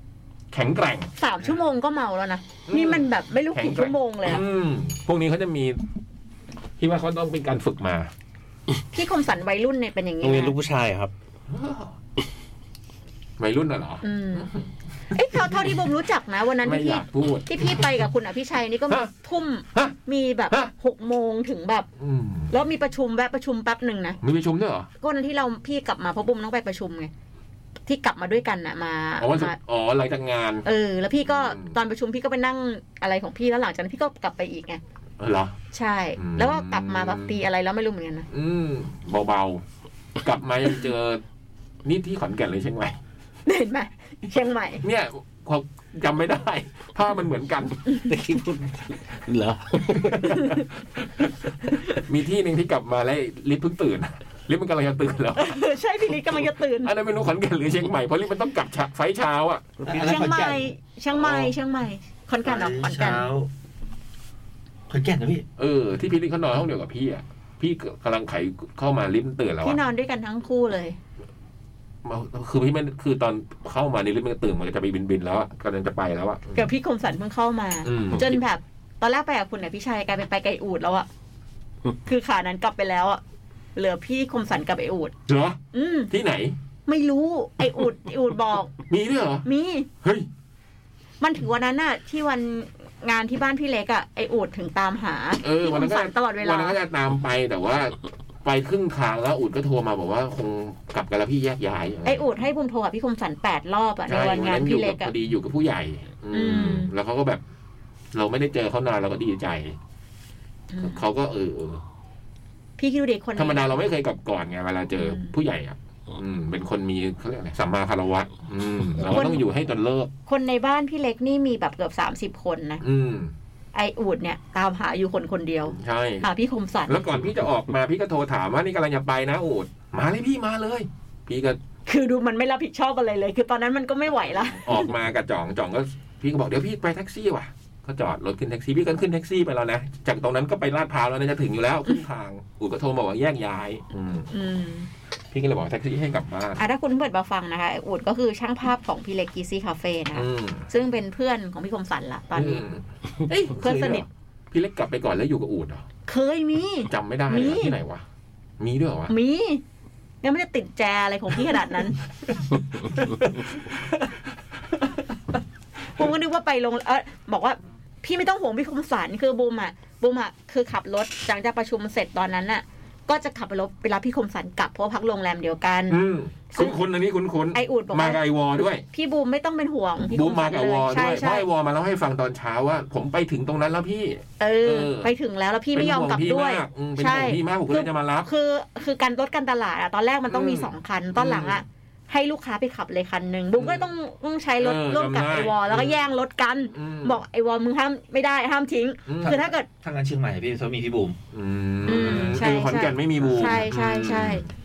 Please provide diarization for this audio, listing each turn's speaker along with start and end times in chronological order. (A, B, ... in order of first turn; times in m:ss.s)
0:00.5-0:01.1 A
0:01.2-0:04.4 B
0:02.7-0:05.8 A
0:06.8-0:08.1 A
0:08.9-0:10.6 B
0:10.2-0:11.1 C
0:11.5-0:11.9 A
0:13.4-0:14.6 A
0:14.0-0:14.5 B
0:15.1-0:21.9 B
0:16.6-0:17.9 A
0:22.0-0:22.5 A
0:22.5-0:24.2 B
0:24.2-0:24.9 A
0:25.0-0:27.1 B
0:27.9-0:29.6 B
0:29.2-0:30.7 A
0:30.6-0:34.8 B
0:31.3-0:31.8 A
0:35.2-0:35.6 A
0:35.7-0:38.3 B
0:36.2-0:37.4 A
0:38.3-0:39.6 A
0:40.2-0:41.2 A
0:41.8-0:43.0 A
0:43.5-0:44.8 B
0:44.8-0:48.0 A
0:48.1-0:50.4 C
0:50.0-0:51.3 A
0:52.1-0:55.5 A
0:55.4-0:56.9 B
0:56.8-0:59.7 A
0:59.8-1:00.7 D
0:59.9-1:03.2 B
1:01.1-1:01.5 A
1:02.4-1:03.5 D
1:04.9-1:05.5 D
1:05.6-1:09.8 A
1:09.6-1:11.0 B
1:12.0-1:16.7 A
1:16.6-1:21.1 B
1:17.8-1:18.4 A
1:22.1-1:23.2 B
1:23.8-1:25.1 B
1:25.3-1:25.6 A
1:25.7-1:26.1 B
1:26.1-1:26.6 A
1:26.9-1:28.7 B
1:28.9-1:29.5 A
1:29.5-1:29.9 B
1:30.0-1:30.3 A
1:31.2-1:36.8 B
1:35.4-1:42.2 A
1:42.0-1:45.1 B
1:44.1-1:47.4 A
1:46.3-1:46.9 B
1:48.1-1:49.8 A
1:50.7-1:51.0 B
1:50.8-1:51.8 A
1:52.8-1:53.7 B
1:53.4-2:00.1 A
1:55.0-1:55.3 B
1:59.0-1:59.5 B
2:00.3-2:02.8 B
2:02.8-2:03.3 A
2:03.7-2:07.0 B
2:05.7-2:06.3 A
2:06.9-2:11.6 A
2:11.9-2:14.9 B
2:14.6-2:24.3 A
2:24.3-2:24.9 B
2:25.3-2:26.6 A
2:26.6-2:32.6 B
2:30.1-2:30.7 A
2:32.4-2:35.8 A
2:33.6-2:34.1 B
2:36.1-2:37.8 B
2:36.9-2:38.0 A
2:38.6-2:39.1 A
2:39.1-2:39.6 B
2:40.2-2:42.0 B
2:42.3-2:44.1 A
2:46.0-2:56.0 B
2:55.9-2:58.8 A
2:56.5-2:56.8 B
2:57.5-2:58.2 B
2:58.9-3:01.5 B
3:00.1-3:05.1 A
3:04.4-3:19.7 B
3:05.8-3:08.3 A
3:10.3-3:11.6 A
3:13.6-3:13.9 A
3:14.6-3:16.0 A
3:16.7-3:17.2 A
3:19.1-3:19.4 A
3:19.2-3:21.2 D
3:21.3-3:24.5 A
3:21.9-3:24.5 B
3:22.0-3:22.6 D
3:23.2-3:23.5 D